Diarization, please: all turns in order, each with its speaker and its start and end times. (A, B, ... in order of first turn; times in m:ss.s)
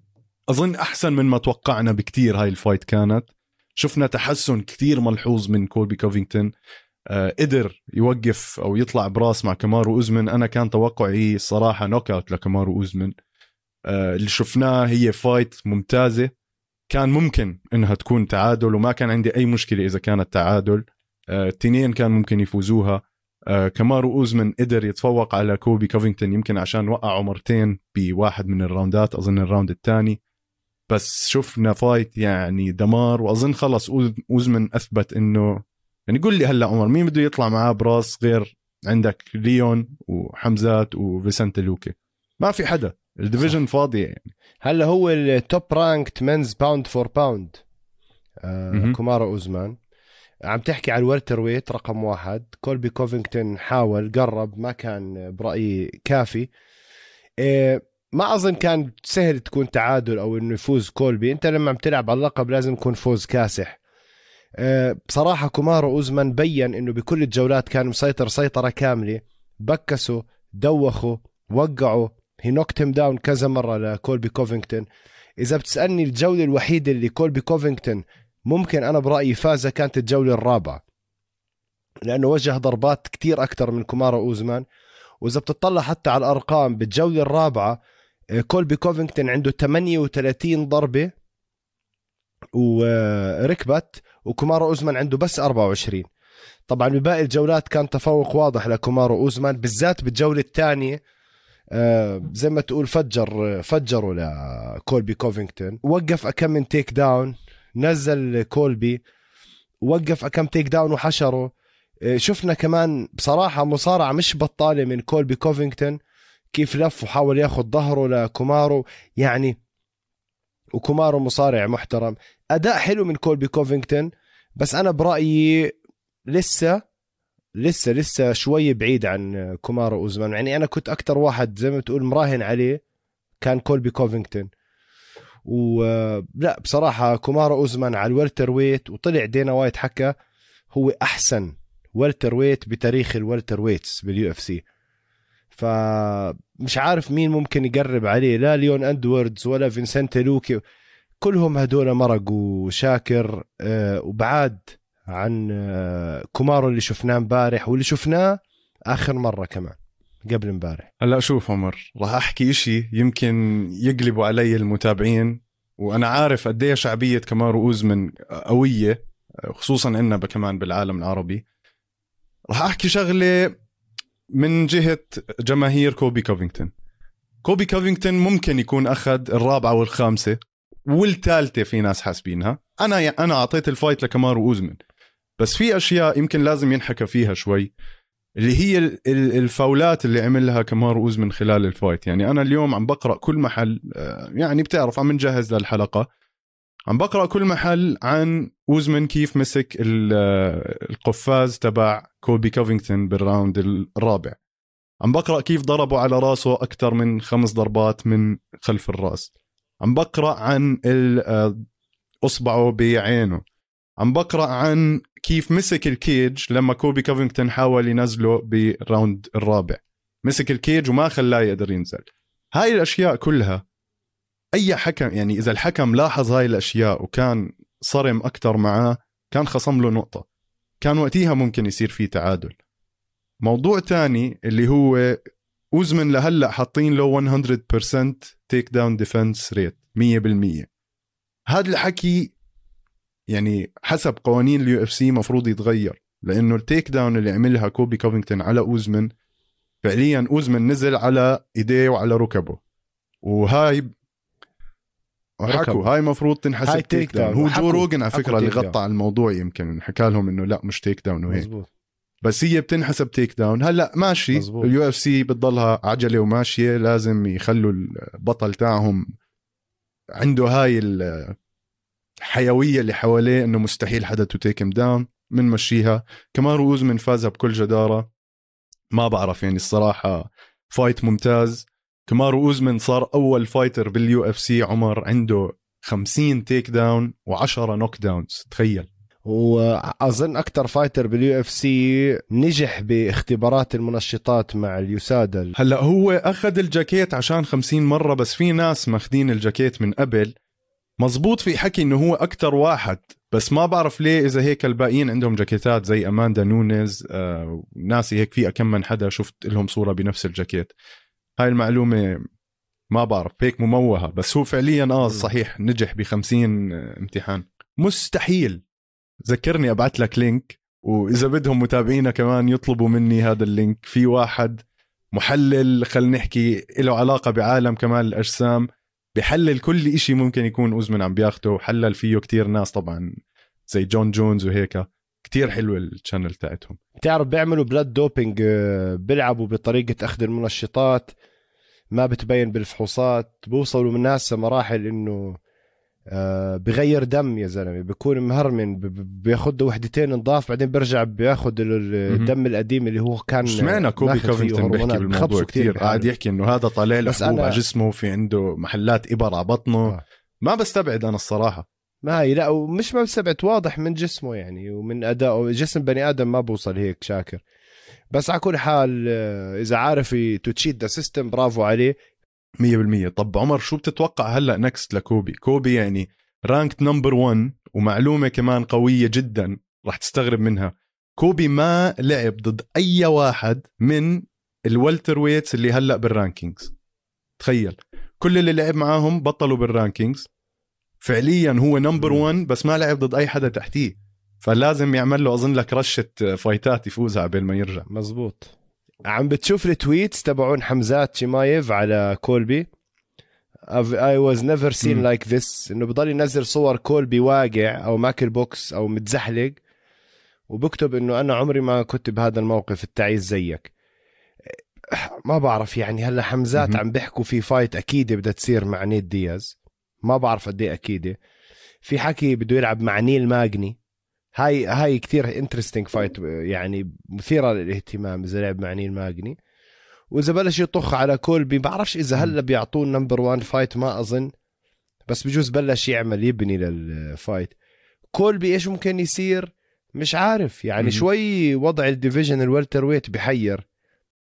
0:00.5-0:06.5 A
0:07.1-0:13.1 A
0:13.8-0:16.3 A
0:16.9-0:30.2 A
0:30.9-0:44.3 A
0:44.6-0:47.6 B
0:48.4-0:49.8 B
0:48.7-0:49.0 A
0:50.5-0:56.5 B
0:57.4-1:03.8 B
1:04.6-1:14.9 B
1:15.4-1:20.8 B
1:22.0-1:24.6 B
1:25.2-1:27.8 B
1:28.4-1:31.1 B
1:32.6-1:36.1 B
1:36.7-1:41.0 B
1:41.7-1:49.0 B
1:49.8-1:51.5 B
1:52.1-1:56.0 B
1:56.5-1:59.6 B
2:00.8-2:05.8 B
2:06.3-2:06.8 B
2:07.6-2:12.8 B
2:13.4-2:14.5 B
2:15.5-2:20.1 B
2:20.7-2:24.6 B
2:25.5-2:30.6 B
2:31.2-2:40.9 B
2:41.0-2:51.4 A
2:52.5-2:53.5 A
2:54.4-2:56.7 A
2:57.4-3:04.8 A
3:05.4-3:07.7 A
3:08.4-3:16.1 A
3:16.9-3:24.4 A
3:25.0-3:29.3 A
3:29.8-3:31.6 A
3:32.2-3:33.4 A
3:34.0-3:43.6 A
3:44.5-3:50.2 A
3:50.8-3:52.6 A
3:53.4-3:55.2 A
3:55.7-4:00.7 A
4:01.5-4:02.3 A
4:03.3-4:09.1 A
4:09.8-4:12.6 A
4:13.2-4:13.9 A
4:15.4-4:15.8 B
4:15.5-4:21.5 A
4:16.7-4:18.8 B
4:21.3-4:21.7 B
4:22.2-4:29.0 A
4:24.3-4:24.7 B
4:30.2-4:31.4 A
4:32.2-4:38.1 A
4:38.9-4:48.9 A
4:49.3-4:55.6 B
4:55.6-5:00.3 A
5:01.0-5:10.7 A
5:11.4-5:12.2 A
5:12.9-5:18.6 A
5:19.2-5:33.1 A
5:33.7-5:36.8 A
5:37.0-5:41.1 B
5:41.9-5:45.4 B
5:46.1-5:56.1 B
5:53.4-6:01.7 A
5:57.0-5:57.6 B
6:02.0-6:07.4 B
6:08.1-6:12.0 B
6:12.6-6:26.7 A
6:27.4-6:30.3 A
6:31.0-6:37.9 A
6:37.9-6:38.5 B
6:39.0-6:42.7 B
6:43.7-6:49.6 B
6:50.5-6:53.7 B
6:54.5-7:01.2 B
7:01.8-7:03.8 B
7:04.3-7:09.4 B
7:10.1-7:14.3 B
7:15.1-7:17.5 B
7:18.1-7:23.6 B
7:20.8-7:21.0 A